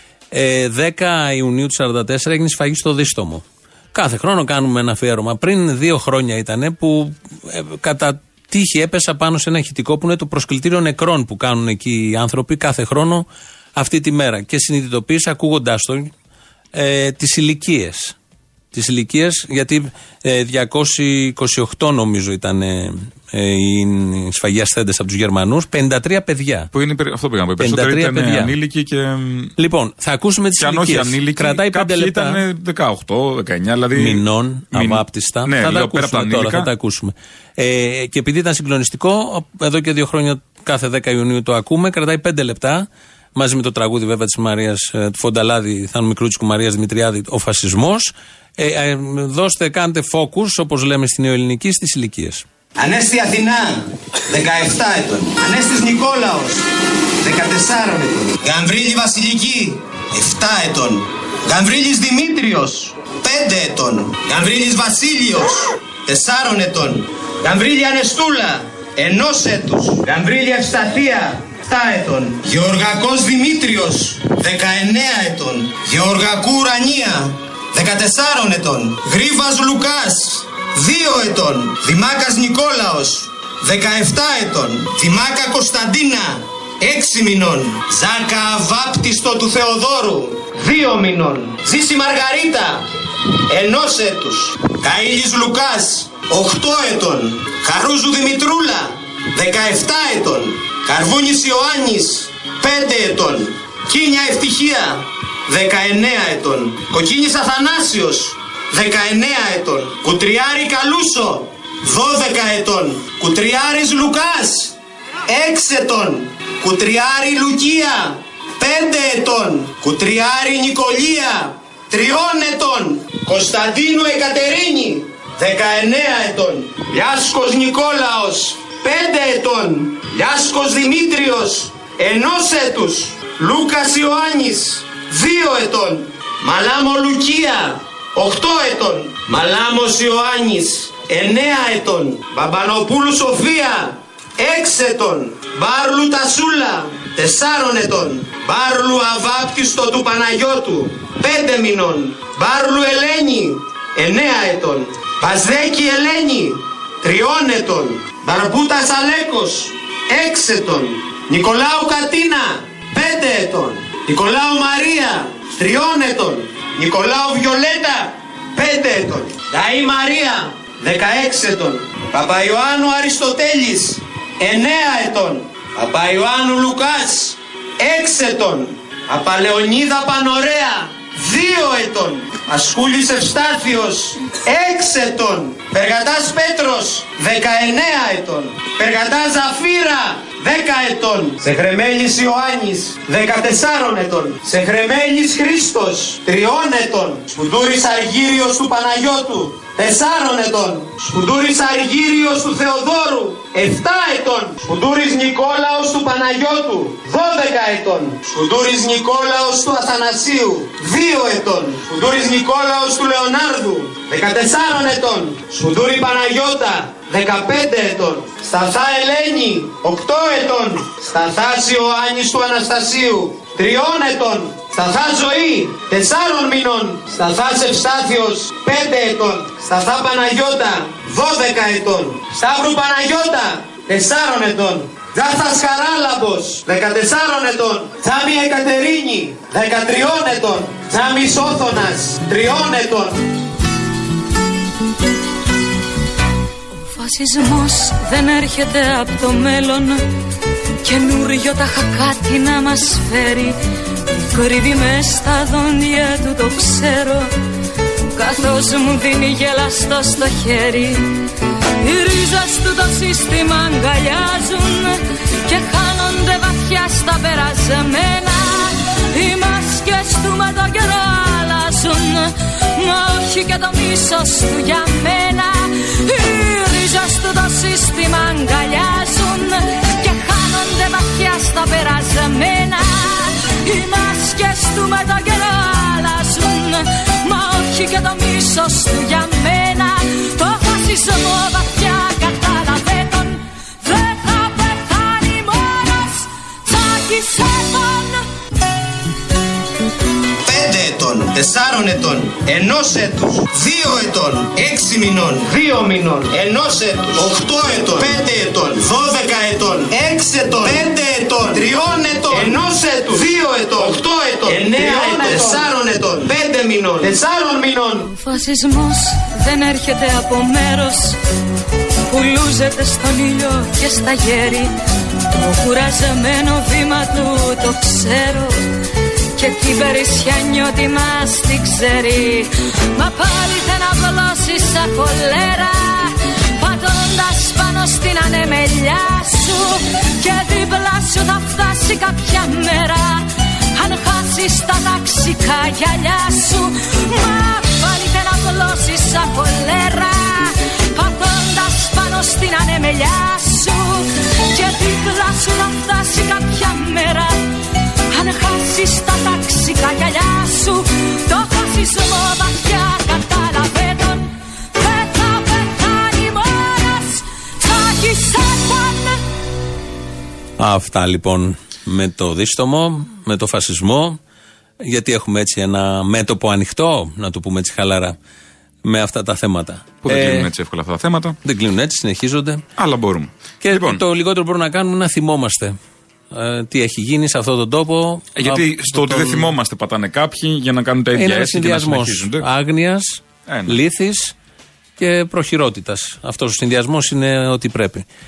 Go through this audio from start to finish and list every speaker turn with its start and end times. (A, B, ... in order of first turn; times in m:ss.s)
0:00.3-0:16.1 A
0:16.7-0:18.1 A
0:18.7-0:26.7 A
0:26.7-0:29.5 B
0:27.6-0:28.5 A
0:29.6-0:32.4 A
0:30.6-0:36.7 B
0:33.9-0:52.4 A
0:52.8-0:56.7 C
0:57.2-1:32.8 C
1:33.5-1:54.7 C
1:55.3-4:03.2 C
4:06.8-4:10.0 D
4:10.8-4:13.6 D
4:14.1-4:17.3 D
4:18.1-4:21.1 D
4:21.8-4:58.2 D
5:00.4-5:18.0 C
5:18.0-5:21.2 D
5:22.1-5:24.7 D
5:25.3-5:28.6 D
5:29.4-5:57.4 D
5:58.1-6:09.2 D
6:10.6-6:14.2 A
6:14.8-6:18.2 A
6:18.8-6:20.5 A
6:20.0-6:21.4 B
6:21.4-6:22.6 A
6:22.8-6:24.0 B
6:23.6-6:25.8 A
6:26.3-6:29.5 A
6:28.4-6:32.4 B
6:31.1-6:34.3 A
6:33.5-6:33.8 B
6:35.0-6:38.0 A